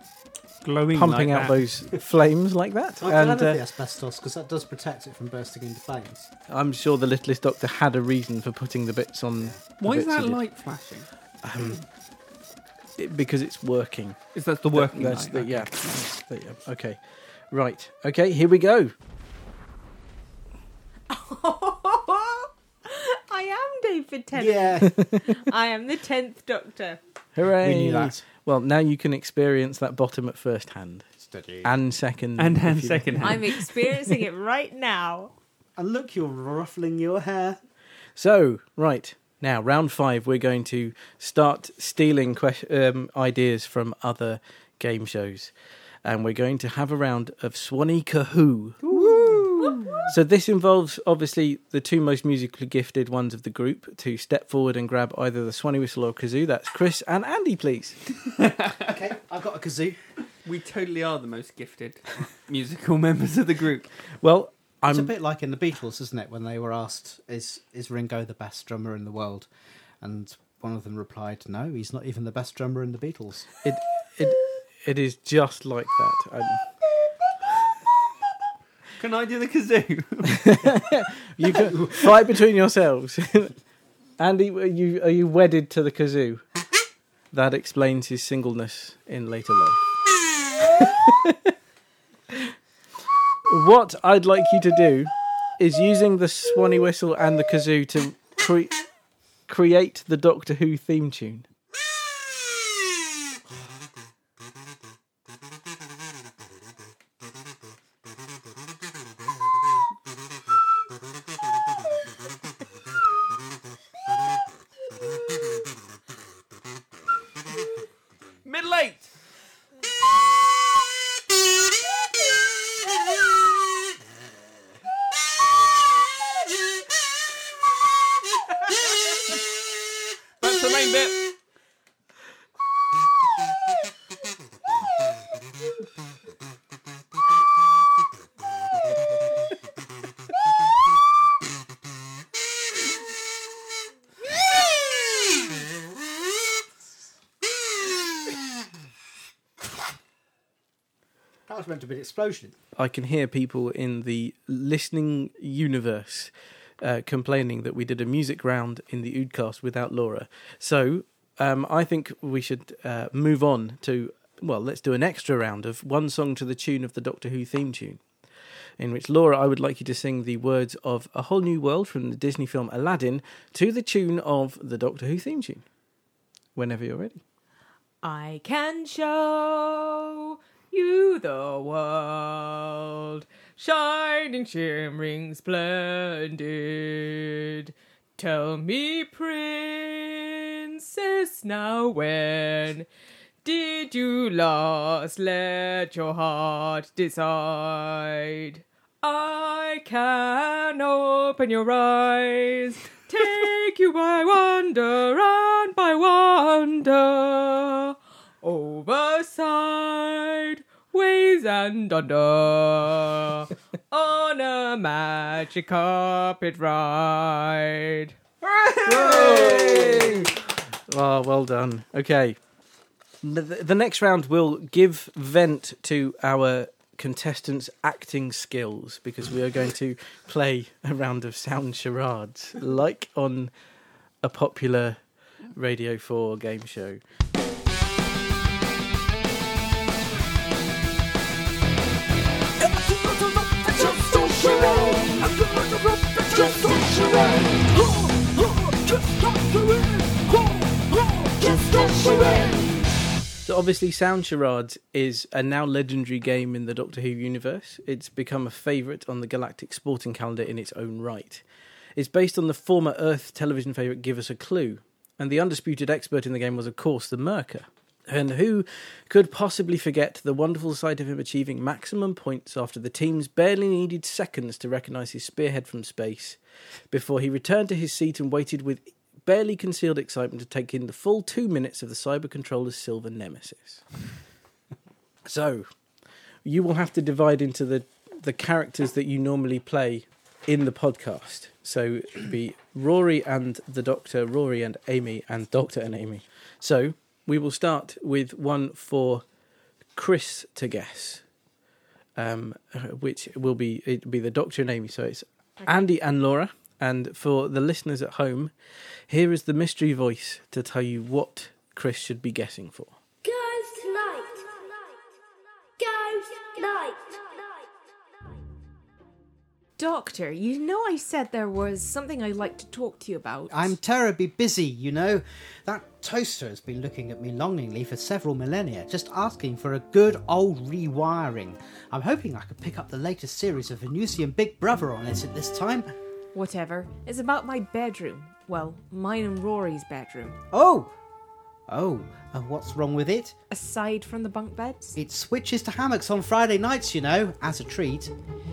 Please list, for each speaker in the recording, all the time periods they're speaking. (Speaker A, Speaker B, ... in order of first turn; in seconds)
Speaker A: 0.6-1.6, 9.8-11.1, 14.3-15.9, 32.4-33.5, 58.4-59.0, 60.5-63.9, 79.0-80.4, 118.5-119.1, 130.4-131.2, 218.4-218.7
Speaker B: 0.9-3.6, 6.5-10.4, 11.4-11.8, 13.0-14.2, 14.7-17.0, 17.5-18.9, 24.8-25.4, 27.4-31.1, 31.6-33.9, 38.2-45.5, 46.0-48.8, 50.1-58.0, 64.2-65.1, 73.6-76.7, 80.3-83.6, 84.2-86.5, 87.3-89.8, 90.8-91.5, 93.5-98.8, 99.5-101.5, 152.8-168.0, 168.8-175.6, 176.6-177.2, 218.8-220.3, 220.9-222.4, 223.2-233.5, 234.2-235.0, 235.5-237.0, 242.7-252.7, 253.4-261.4, 262.0-276.4, 276.9-283.8, 285.3-285.7, 286.4-299.2, 299.9-301.2, 302.2-308.5, 309.1-312.9
Speaker C: 3.0-6.3, 24.3-24.9, 27.6-28.2, 31.2-31.7, 35.8-37.6, 48.8-50.1, 58.8-60.0, 64.9-69.5, 70.0-73.5, 81.4-82.2, 151.5-152.6, 323.5-335.9, 340.5-340.9, 341.7-343.4, 345.0-348.1
Speaker D: 21.1-27.0, 33.2-35.3, 49.0-50.0, 178.0-192.9, 193.4-218.1, 219.0-220.2, 305.6-305.9, 319.8-323.7, 336.3-340.4, 343.5-345.0
Speaker E: 313.2-315.0, 315.8-317.7